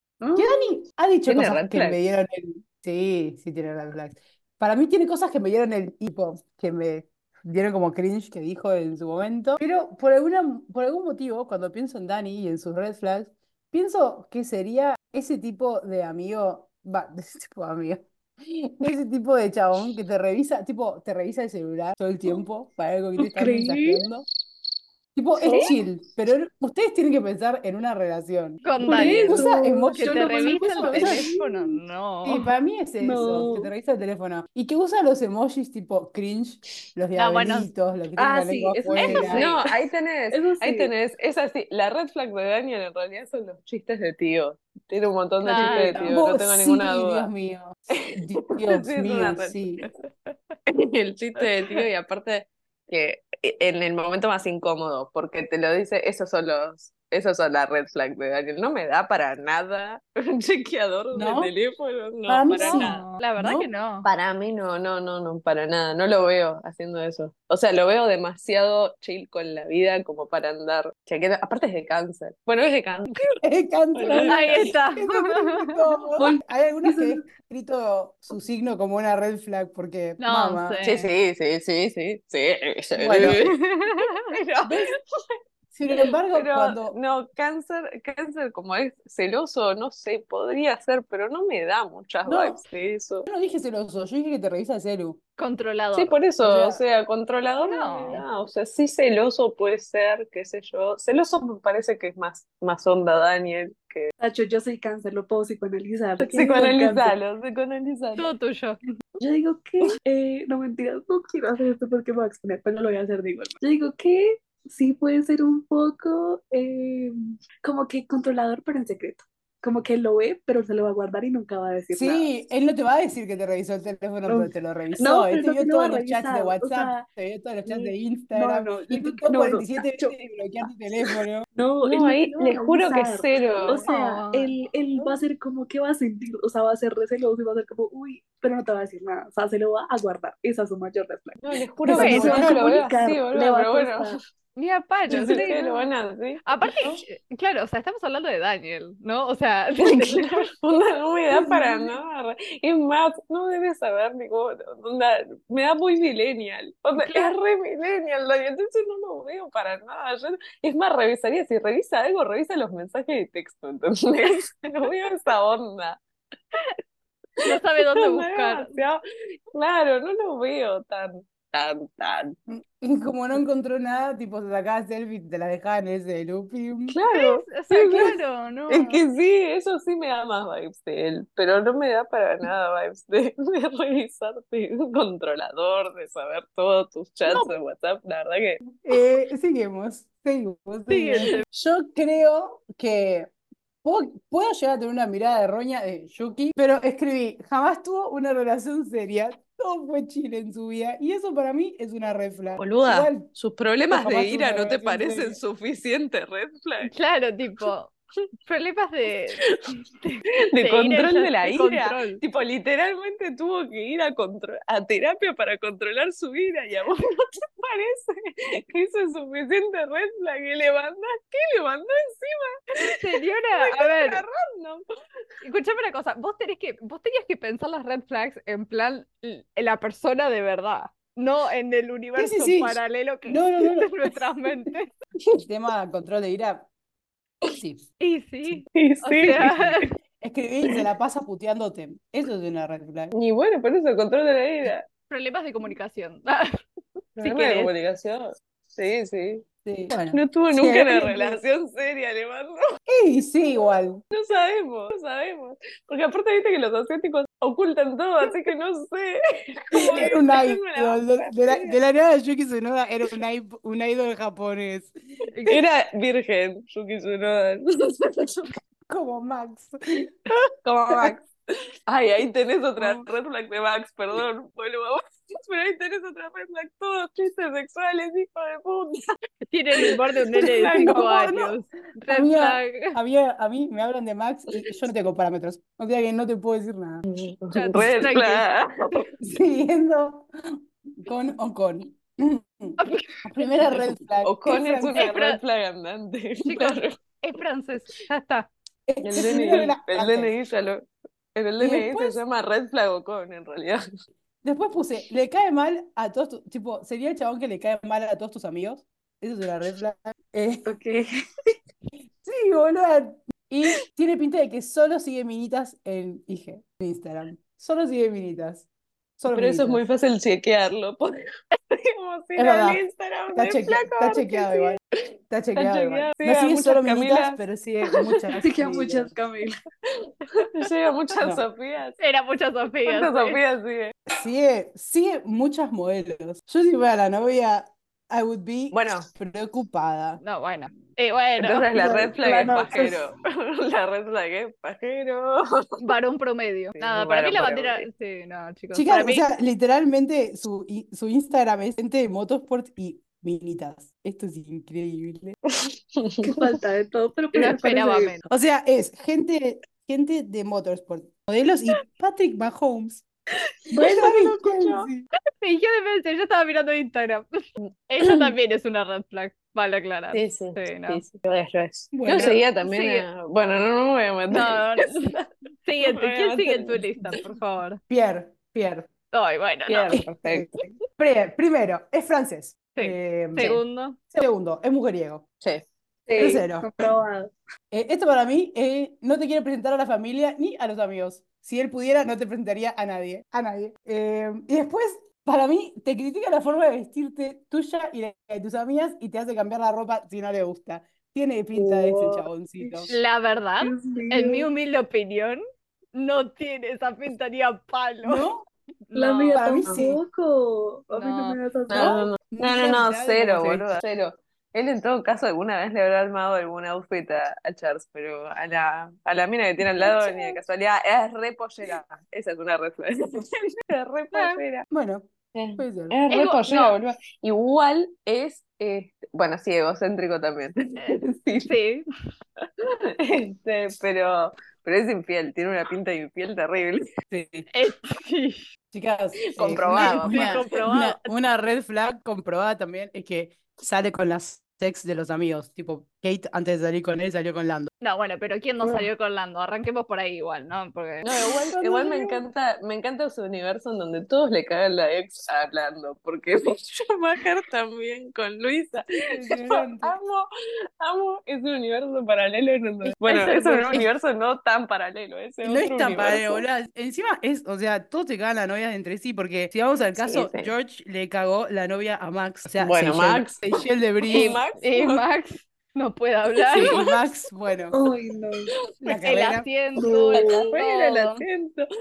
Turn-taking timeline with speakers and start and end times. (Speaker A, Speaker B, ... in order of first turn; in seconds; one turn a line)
Speaker A: 0.2-0.8
Speaker B: 0.3-24.2
Speaker C: 1.2-2.0
Speaker A: 23.2-24.0
Speaker B: 25.2-31.3
Speaker A: 25.4-25.8
Speaker D: 28.6-32.4
Speaker A: 28.8-31.8
Speaker B: 32.2-39.5
Speaker A: 33.0-33.7
Speaker D: 37.2-37.7
Speaker A: 38.2-39.7
Speaker D: 39.0-39.5
Speaker C: 39.3-47.3
Speaker A: 40.3-40.9
Speaker D: 45.4-46.2
Speaker B: 45.5-49.9
Speaker C: 48.0-49.6
Speaker C: 50.7-63.0
Speaker B: 61.1-61.5
Speaker B: 62.3-63.7
Speaker D: 62.5-64.1
Speaker C: 64.0-73.2
Speaker B: 73.4-80.8
Speaker C: 73.9-74.8
Speaker D: 74.1-75.8
Speaker A: 76.2-77.2
Speaker D: 80.2-81.1
Speaker C: 80.8-84.9
Speaker B: 83.0-83.4
Speaker D: 83.2-84.3
Speaker B: 84.6-84.9
Speaker B: 85.7-87.0
Speaker C: 86.3-93.2
Speaker B: 92.2-92.6
Speaker B: 93.2-95.2
Speaker D: 95.4-96.2
Speaker C: 95.9-104.1
Speaker B: 96.4-96.8
Speaker D: 97.6-98.2
Speaker A: 104.2-107.2
Speaker C: 106.2-108.3
Speaker D: 108.2-108.8
Speaker A: 109.2-122.3
Speaker B: 121.9-131.4
Speaker A: 124.3-127.0
Speaker A: 127.7-130.2
Speaker A: 131.5-144.2
Speaker C: 131.8-133.8
Speaker D: 133.7-134.5
Speaker C: 141.4-144.2
Speaker B: 141.8-142.7
Speaker D: 141.9-142.4
Speaker D: 144.6-145.9
Speaker C: 145.1-146.4
Speaker D: 146.4-150.4
Speaker C: 149.8-166.0
Speaker A: 151.4-151.9
Speaker D: 156.9-157.3
Speaker D: 167.4-168.8
Speaker C: 167.5-169.0
Speaker C: 169.5-172.3
Speaker B: 172.5-177.0
Speaker C: 176.9-178.2
Speaker D: 177.1-179.0
Speaker C: 178.7-188.6
Speaker B: 187.3-187.5
Speaker B: 188.8-193.3
Speaker D: 190.9-191.4
Speaker B: 193.8-203.3
Speaker C: 202.6-206.9
Speaker B: 203.9-205.4
Speaker D: 206.8-207.9
Speaker D: 208.5-209.4
Speaker D: 210.0-212.2
Speaker C: 210.5-222.9
Speaker D: 223.0-224.2
Speaker C: 223.6-224.8
Speaker D: 225.4-234.9
Speaker B: 232.2-233.9
Speaker B: 235.4-236.7
Speaker B: 237.6-237.9
Speaker D: 238.0-239.9
Speaker C: 238.8-239.6
Speaker B: 240.2-243.1
Speaker C: 243.1-244.8
Speaker D: 245.1-246.5
Speaker C: 247.2-249.4
Speaker D: 247.2-247.7
Speaker B: 249.6-251.4
Speaker C: 250.1-252.6
Speaker B: 252.9-254.0
Speaker C: 254.1-261.8
Speaker B: 259.8-264.9
Speaker D: 265.3-265.6
Speaker C: 265.5-268.5
Speaker B: 268.9-270.1
Speaker C: 270.6-271.3
Speaker C: 271.9-279.0
Speaker D: 279.5-283.0
Speaker C: 279.8-281.5
Speaker B: 280.8-281.1
Speaker B: 282.1-287.0
Speaker C: 287.1-289.1
Speaker D: 287.5-288.4
Speaker B: 289.2-290.3
Speaker B: 291.0-295.1
Speaker D: 292.8-293.1
Speaker C: 294.2-296.9
Speaker D: 294.9-295.4
Speaker D: 296.4-298.5
Speaker B: 298.9-300.3
Speaker C: 299.0-303.8
Speaker B: 301.6-302.2
Speaker B: 304.4-310.7
Speaker A: 310.6-311.0
Speaker B: 312.2-318.7
Speaker B: 319.2-319.8
Speaker C: 319.3-324.8
Speaker B: 322.4-322.8
Speaker B: 323.3-324.8
Speaker B: 325.3-329.1
Speaker C: 325.6-327.4
Speaker A: 328.4-329.5
Speaker C: 330.1-332.0
Speaker D: 332.0-333.4
Speaker C: 332.8-333.9
Speaker B: 334.1-340.2
Speaker C: 338.7-339.1
Speaker D: 340.2-341.7
Speaker C: 341.4-345.8
Speaker A: 341.7-343.0
Speaker D: 345.8-349.2
Speaker C: 346.8-347.9
Speaker B: 348.7-355.4
Speaker C: 355.6-356.3
Speaker A: 356.2-358.1
Speaker D: 357.3-358.2
Speaker B: 358.3-363.0
Speaker A: 363.7-364.3
Speaker B: 363.8-365.1
Speaker D: 365.4-367.3
Speaker C: 367.6-368.3
Speaker D: 367.9-371.0
Speaker C: 370.1-375.2
Speaker B: 371.9-372.4
Speaker D: 372.2-373.1
Speaker D: 374.3-375.1
Speaker D: 375.6-377.8
Speaker C: 375.8-376.8
Speaker B: 377.9-378.9
Speaker D: 379.1-380.0
Speaker C: 379.7-380.5
Speaker B: 379.9-383.6
Speaker D: 382.8-384.0
Speaker B: 384.1-385.2
Speaker A: 386.1-387.3
Speaker B: 386.2-386.7
Speaker B: 387.7-402.9
Speaker A: 401.6-402.9
Speaker D: 402.9-405.4
Speaker A: 403.6-404.5
Speaker D: 405.9-408.3
Speaker B: 408.0-408.5
Speaker D: 408.9-409.4
Speaker A: 408.9-412.1
Speaker B: 409.3-410.0
Speaker D: 410.9-411.4
Speaker C: 411.7-424.7
Speaker B: 411.8-413.6
Speaker A: 420.0-420.3
Speaker D: 424.1-424.4
Speaker B: 424.7-426.0
Speaker C: 425.3-431.5
Speaker D: 426.1-426.8
Speaker D: 430.8-431.8
Speaker C: 433.0-436.8
Speaker B: 437.1-437.5
Speaker D: 437.5-438.4
Speaker B: 438.7-447.7
Speaker C: 439.3-440.6
Speaker D: 439.7-441.1
Speaker D: 447.8-451.1
Speaker C: 451.0-460.3
Speaker B: 451.5-452.2
Speaker B: 459.1-459.9
Speaker C: 460.8-466.4
Speaker B: 462.9-463.9
Speaker D: 463.0-463.8
Speaker B: 465.4-474.4
Speaker C: 470.0-470.5
Speaker C: 472.6-473.4
Speaker C: 474.1-475.0
Speaker D: 474.6-476.8
Speaker C: 476.4-477.0
Speaker B: 476.5-477.8
Speaker A: 477.7-478.5
Speaker B: 478.8-479.5
Speaker D: 478.9-481.2
Speaker A: 479.8-480.5
Speaker C: 480.1-481.7